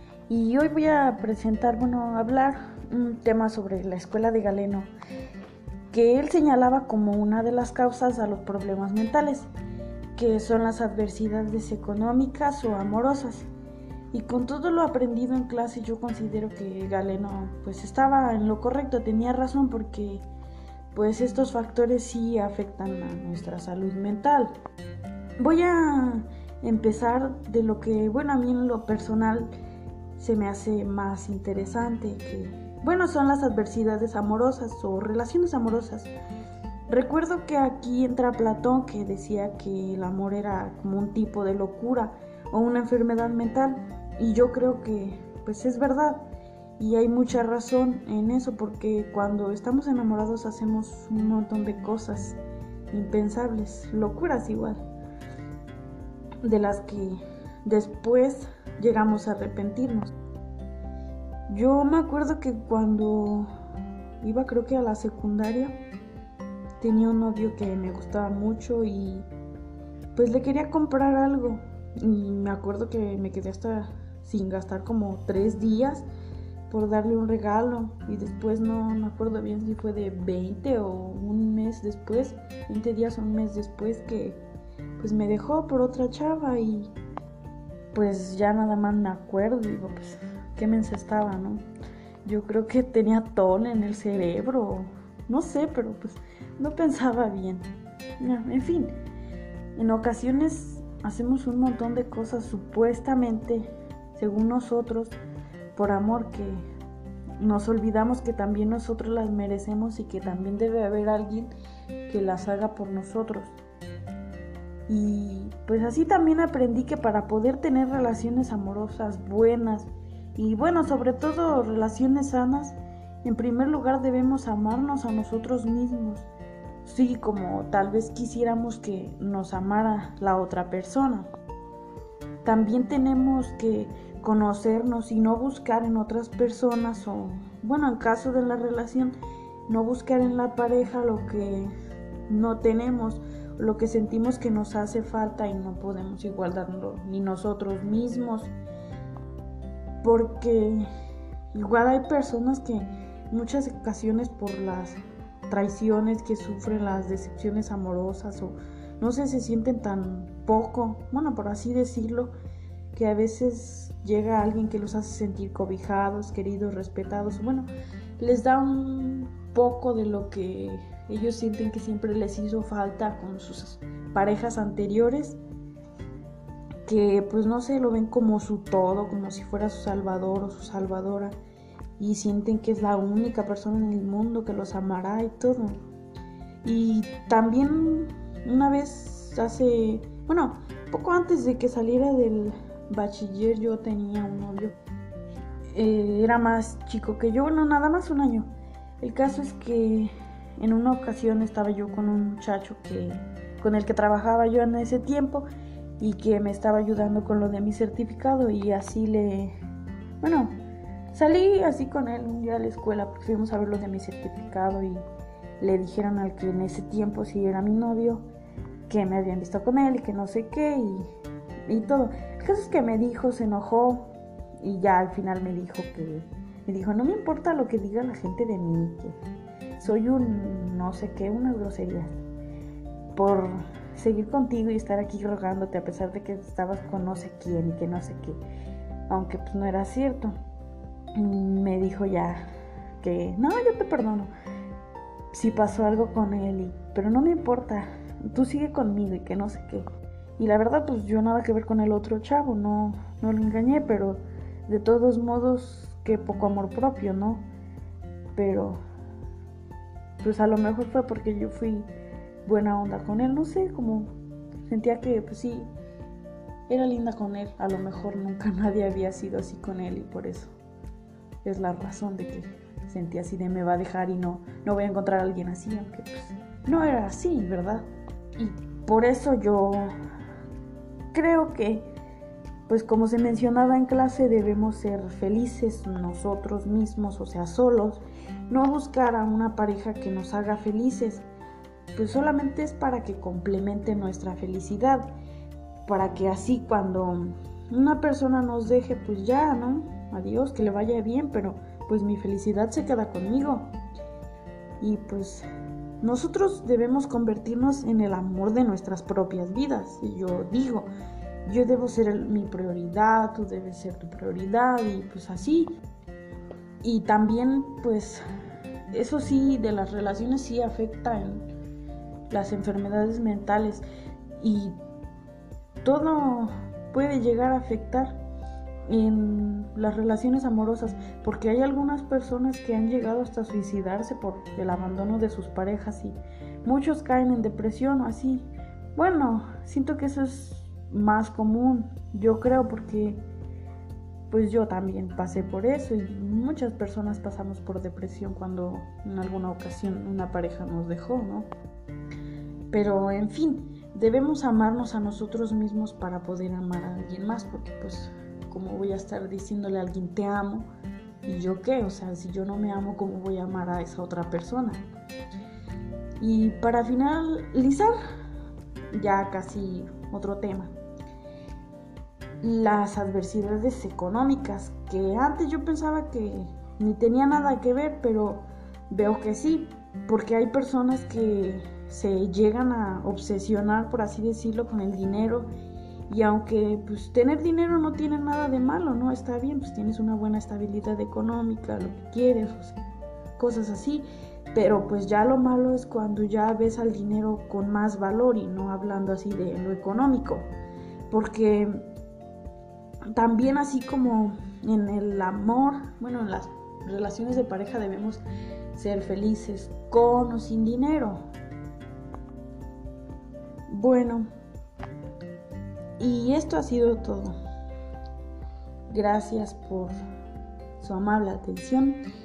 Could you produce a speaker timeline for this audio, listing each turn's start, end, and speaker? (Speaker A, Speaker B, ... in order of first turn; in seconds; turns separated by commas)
Speaker A: 0.3-4.9, Speaker A: 5.9-9.5, Speaker A: 10.2-13.5, Speaker A: 14.1-20.2, Speaker A: 20.9-24.5, Speaker A: 25.4-29.5, Speaker A: 30.2-36.1, Speaker A: 36.9-46.2, Speaker A: 46.8-52.4, Speaker A: 52.9-54.8, Speaker A: 56.4-60.1, Speaker A: 61.5-63.5, Speaker A: 64.2-65.8, Speaker A: 66.8-69.3, Speaker A: 70.2-76.1, Speaker A: 76.7-84.4, Speaker A: 85.0-86.9, Speaker A: 87.9-91.7, Speaker A: 92.2-97.7, Speaker A: 98.2-99.0, Speaker A: 99.8-105.2, Speaker A: 105.8-106.7, Speaker A: 107.4-111.5, Speaker A: 112.1-113.5, Speaker A: 114.9-126.3, Speaker A: 126.8-131.3, Speaker A: 132.4-139.2, Speaker A: 139.7-141.7, Speaker A: 142.3-148.5, Speaker A: 150.0-150.9, Speaker A: 151.5-162.3, Speaker A: 162.9-175.4, Speaker A: 176.9-181.3, Speaker A: 182.0-185.8, Speaker A: 186.6-194.7, Speaker A: 195.7-205.5, Speaker A: 206.0-209.6, Speaker A: 210.2-210.6, Speaker A: 211.1-215.1, Speaker A: 215.6-218.3, Speaker A: 218.9-221.1, Speaker A: 221.7-229.2, Speaker A: 229.8-232.2, Speaker A: 233.2-238.4, Speaker A: 239.1-240.4, Speaker A: 241.2-242.4, Speaker A: 243.0-244.3, Speaker A: 245.3-249.9, Speaker A: 250.4-257.4, Speaker A: 258.4-258.8, Speaker A: 260.2-261.9, Speaker A: 262.4-264.1, Speaker A: 264.7-265.7, Speaker A: 266.7-270.5, Speaker A: 271.4-279.9, Speaker A: 281.1-281.9, Speaker A: 282.7-291.2, Speaker A: 291.9-295.1, Speaker A: 295.9-303.7, Speaker A: 304.8-305.5, Speaker A: 306.0-310.9, Speaker A: 311.4-315.7, Speaker A: 316.8-318.2, Speaker A: 318.9-321.5, Speaker A: 322.3-323.8, Speaker A: 324.4-324.8, Speaker A: 325.8-328.2, Speaker A: 328.9-343.2, Speaker A: 344.3-351.5, Speaker A: 352.7-360.7, Speaker A: 361.2-364.8, Speaker A: 366.2-367.9, Speaker A: 368.9-370.8, Speaker A: 372.4-385.5, Speaker A: 386.1-392.8, Speaker A: 393.4-400.5, Speaker A: 401.1-401.9, Speaker A: 403.1-408.2, Speaker A: 408.7-411.2, Speaker A: 413.7-414.3, Speaker A: 416.0-417.4, Speaker A: 418.9-419.9, Speaker A: 420.8-422.1